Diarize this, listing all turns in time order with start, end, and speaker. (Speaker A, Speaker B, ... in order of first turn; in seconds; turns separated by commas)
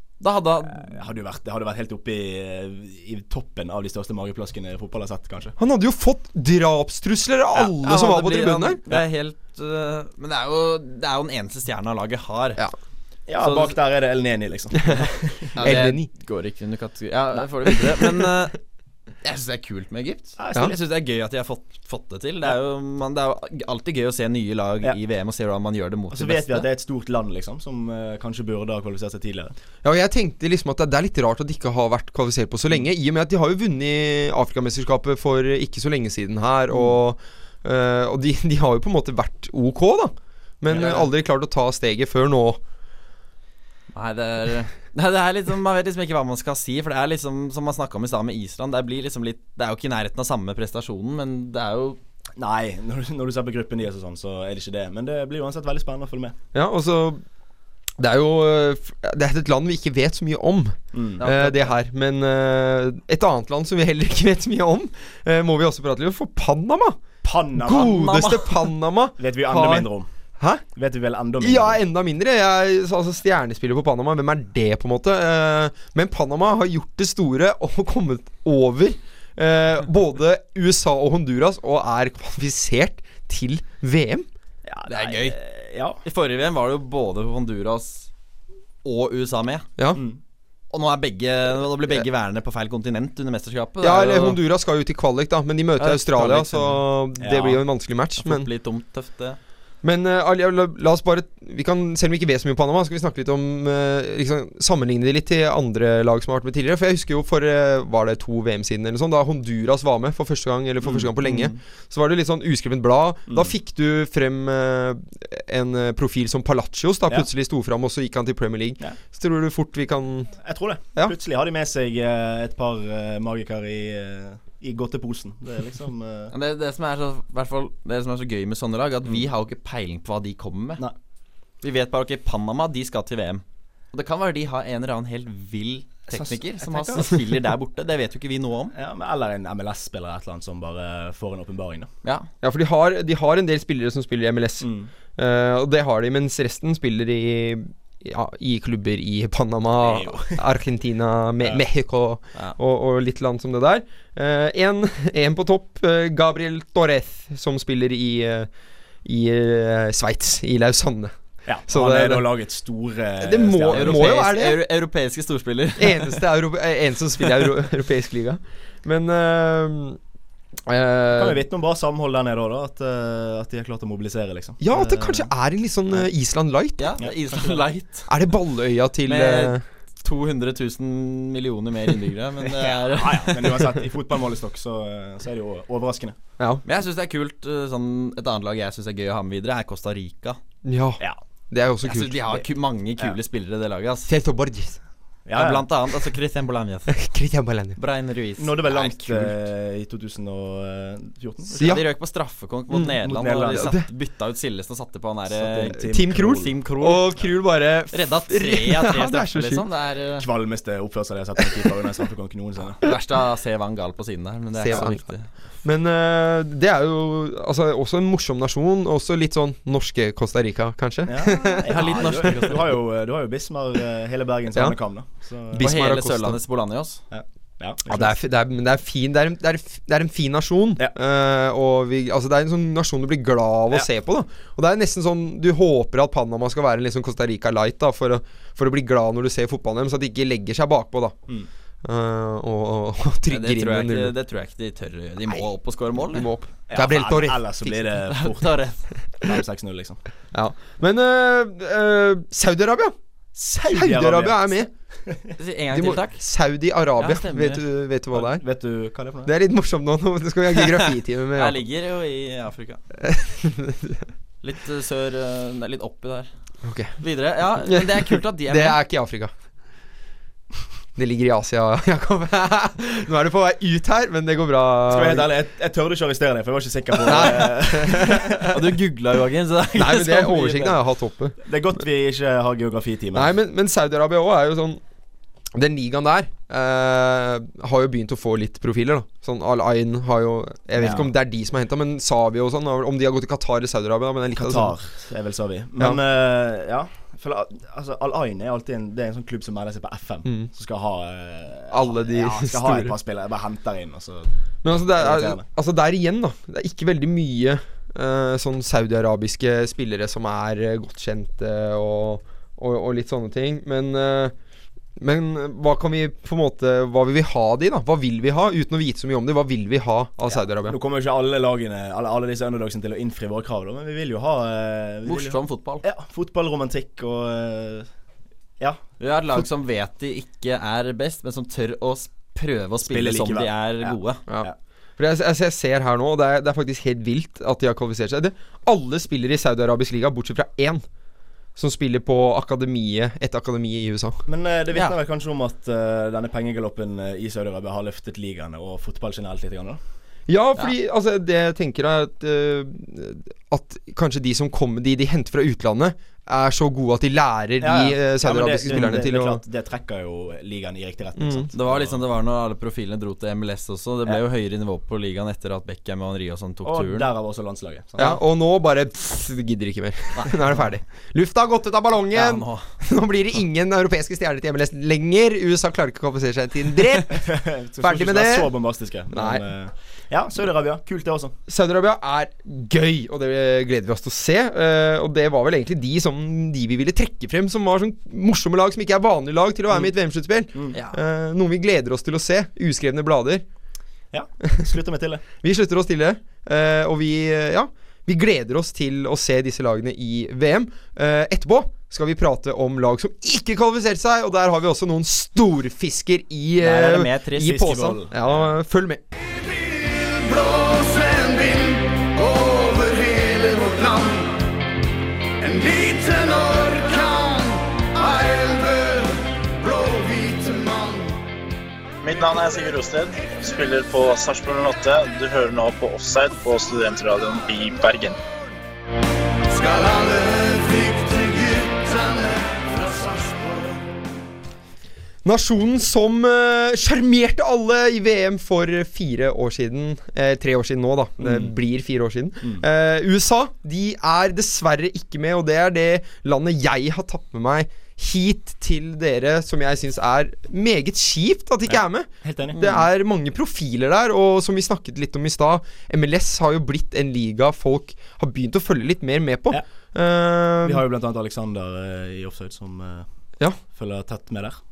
Speaker A: 0.2-0.9, Speaker B: 0.7-5.5, Speaker C: 5.6-8.8, Speaker A: 7.8-12.6, Speaker B: 13.3-15.5, Speaker A: 13.4-13.8, Speaker A: 15.6-18.6, Speaker C: 15.6-16.1, Speaker A: 19.2-26.7, Speaker B: 20.4-20.8, Speaker B: 26.1-29.5, Speaker C: 29.8-42.6, Speaker B: 40.7-41.1, Speaker A: 43.9-52.0, Speaker B: 52.4-56.4, Speaker C: 56.5-57.2, Speaker C: 58.0-67.0, Speaker B: 60.9-61.3, Speaker A: 61.2-61.7, Speaker B: 67.2-68.2, Speaker C: 67.6-69.9, Speaker A: 67.7-68.7, Speaker B: 69.2-70.1, Speaker C: 70.4-70.6, Speaker B: 70.8-71.8, Speaker C: 71.4-84.3, Speaker B: 84.7-86.0, Speaker A: 84.9-85.4, Speaker A: 86.0-88.1, Speaker A: 88.8-89.7, Speaker B: 90.0-90.2, Speaker A: 90.7-94.4, Speaker C: 93.8-98.5, Speaker A: 95.8-96.8, Speaker B: 97.2-97.6, Speaker A: 98.2-99.4, Speaker C: 99.8-120.3, Speaker B: 113.3-113.5, Speaker B: 120.4-126.3, Speaker A: 126.3-130.8, Speaker A: 131.6-138.7, Speaker B: 136.1-137.1, Speaker B: 138.7-141.9, Speaker C: 142.4-158.5, Speaker B: 144.6-144.9, Speaker B: 149.8-150.4, Speaker C: 159.1-161.1, Speaker B: 161.5-164.2, Speaker C: 161.7-162.3, Speaker C: 163.2-164.6, Speaker A: 163.7-166.2, Speaker C: 165.8-170.0, Speaker C: 170.7-171.4, Speaker B: 171.1-175.3, Speaker C: 174.6-176.9, Speaker A: 176.8-178.1, Speaker B: 177.0-177.6, Speaker C: 178.1-179.6, Speaker A: 179.1-183.8, Speaker B: 182.4-186.2, Speaker C: 186.4-186.6, Speaker A: 186.7-190.4, Speaker C: 190.7-191.0, Speaker C: 191.5-192.2, Speaker A: 191.8-194.1, Speaker C: 194.1-194.8, Speaker B: 195.3-195.7, Speaker A: 195.3-197.0, Speaker C: 196.9-197.8, Speaker A: 197.8-199.4, Speaker B: 198.4-201.8, Speaker A: 201.6-207.2, Speaker B: 202.9-203.7, Speaker C: 203.5-203.8, Speaker B: 205.3-206.6, Speaker C: 205.9-209.7, Speaker A: 207.9-210.3, Speaker B: 210.2-212.8, Speaker A: 212.8-215.3, Speaker C: 214.6-215.1, Speaker C: 215.6-222.1, Speaker B: 221.1-225.7, Speaker A: 221.7-222.8, Speaker C: 225.5-226.4, Speaker A: 225.6-227.0, Speaker B: 227.1-228.2, Speaker C: 227.9-241.2, Speaker C: 241.8-244.1, Speaker A: 243.3-246.3, Speaker C: 246.1-247.9, Speaker B: 246.7-250.0, Speaker A: 248.2-248.8, Speaker C: 250.3-252.9, Speaker B: 253.3-255.3, Speaker C: 253.6-254.7, Speaker A: 255.4-256.2, Speaker C: 255.7-258.4, Speaker A: 257.0-257.6, Speaker B: 258.1-259.3, Speaker C: 259.3-261.6, Speaker A: 261.4-262.8, Speaker C: 263.0-264.1, Speaker A: 264.4-266.3, Speaker C: 266.6-267.0, Speaker A: 267.0-268.8, Speaker C: 267.7-269.3, Speaker C: 271.0-275.3, Speaker B: 274.9-278.5, Speaker C: 277.1-278.5, Speaker A: 278.5-280.7, Speaker C: 279.8-281.4, Speaker B: 281.4-283.3, Speaker C: 283.1-284.8, Speaker C: 285.6-294.8, Speaker B: 290.8-291.1, Speaker B: 294.3-304.3, Speaker C: 301.7-302.9, Speaker C: 304.6-314.4, Speaker B: 304.9-305.4, Speaker C: 315.0-320.8, Speaker B: 320.3-327.9, Speaker A: 325.1-325.8, Speaker A: 329.0-334.2, Speaker B: 332.9-334.6, Speaker C: 334.3-340.8, Speaker C: 341.6-344.2, Speaker B: 344.3-349.8, Speaker C: 350.3-359.4, Speaker B: 357.6-362.0, Speaker C: 361.2-361.5, Speaker A: 361.5-367.1, Speaker B: 366.6-368.2, Speaker C: 368.0-377.3, Speaker A: 372.1-372.7, Speaker B: 377.0-381.4, Speaker C: 377.8-378.5, Speaker C: 379.1-379.4, Speaker C: 381.5-393.4, Speaker B: 394.1-395.2, Speaker C: 395.4-409.0, Speaker B: 406.6-408.5, Speaker D: 409.4-414.5, Speaker D: 415.4-421.1, Speaker E: 422.0-428.2, Speaker D: 429.5-433.8, Speaker C: 435.2-460.8, Speaker B: 441.2-441.5, Speaker B: 451.7-452.7, Speaker B: 460.6-463.1, Speaker B: 463.6-464.6